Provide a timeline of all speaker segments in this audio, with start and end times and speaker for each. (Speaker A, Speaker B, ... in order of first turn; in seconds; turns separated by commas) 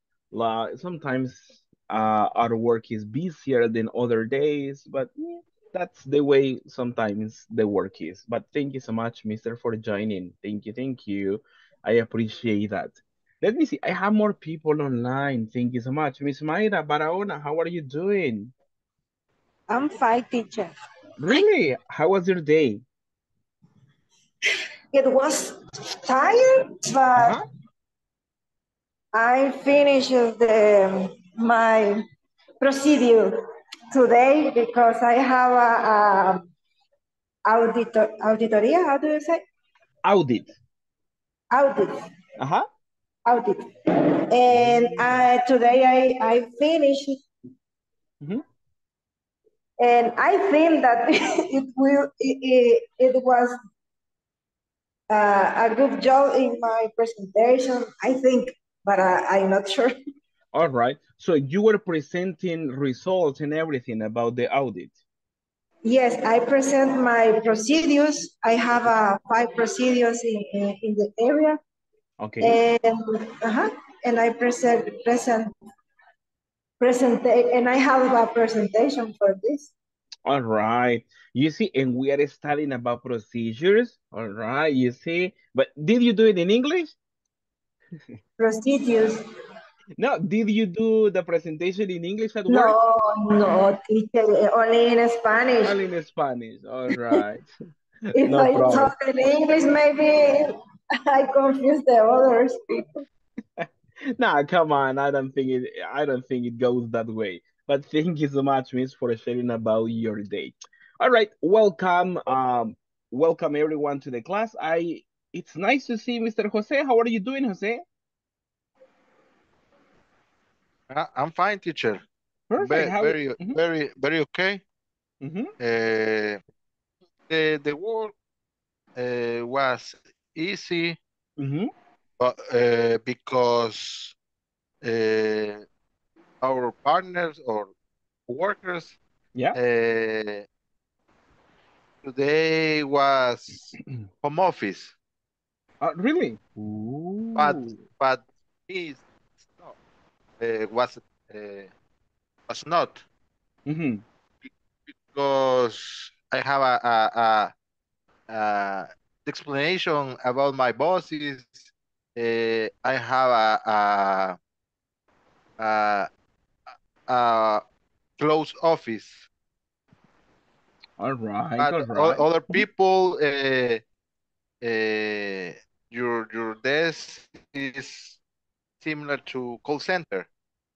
Speaker A: 0.3-18.5, Speaker B: 19.7-20.7, Speaker A: 21.2-22.8, Speaker B: 24.9-27.4, Speaker A: 27.1-27.4, Speaker B: 29.1-32.0, Speaker B: 32.6-33.4, Speaker B: 33.9-36.4, Speaker B: 37.4-39.4, Speaker A: 40.0-40.5, Speaker B: 41.5-41.9, Speaker A: 42.4-42.7, Speaker B: 43.2-43.6, Speaker B: 44.3-47.2, Speaker B: 49.8-53.5, Speaker B: 55.1-59.9, Speaker A: 60.5-64.9, Speaker B: 65.8-71.6, Speaker A: 72.2-72.6, Speaker B: 72.4-75.5, Speaker B: 76.8-79.7, Speaker A: 80.3-86.9, Speaker B: 88.4-89.2, Speaker A: 90.0-92.8, Speaker B: 92.5-95.8, Speaker A: 95.6-97.5, Speaker B: 98.2-100.5, Speaker A: 98.2-98.9, Speaker B: 101.1-102.8, Speaker A: 103.6-117.8, Speaker C: 120.9-122.0, Speaker A: 122.5-123.6, Speaker C: 122.6-124.6, Speaker A: 125.2-125.5, Speaker C: 125.6-126.4, Speaker C: 127.3-128.1, Speaker C: 128.9-131.0, Speaker A: 131.4-131.7, Speaker C: 132.2-134.1, Speaker C: 134.8-135.6, Speaker C: 136.4-137.7, Speaker C: 138.3-139.0, Speaker C: 139.5-140.4, Speaker C: 142.0-144.9, Speaker A: 145.8-147.8, Speaker C: 147.3-149.0, Speaker C: 150.4-151.7, Speaker C: 152.5-153.0, Speaker A: 153.7-154.0, Speaker C: 154.9-157.5, Speaker C: 158.3-164.3, Speaker C: 165.6-166.1, Speaker C: 166.7-167.6, Speaker C: 168.2-169.2, Speaker A: 171.0-172.6, Speaker C: 171.6-173.8, Speaker C: 174.6-178.2, Speaker C: 178.8-180.3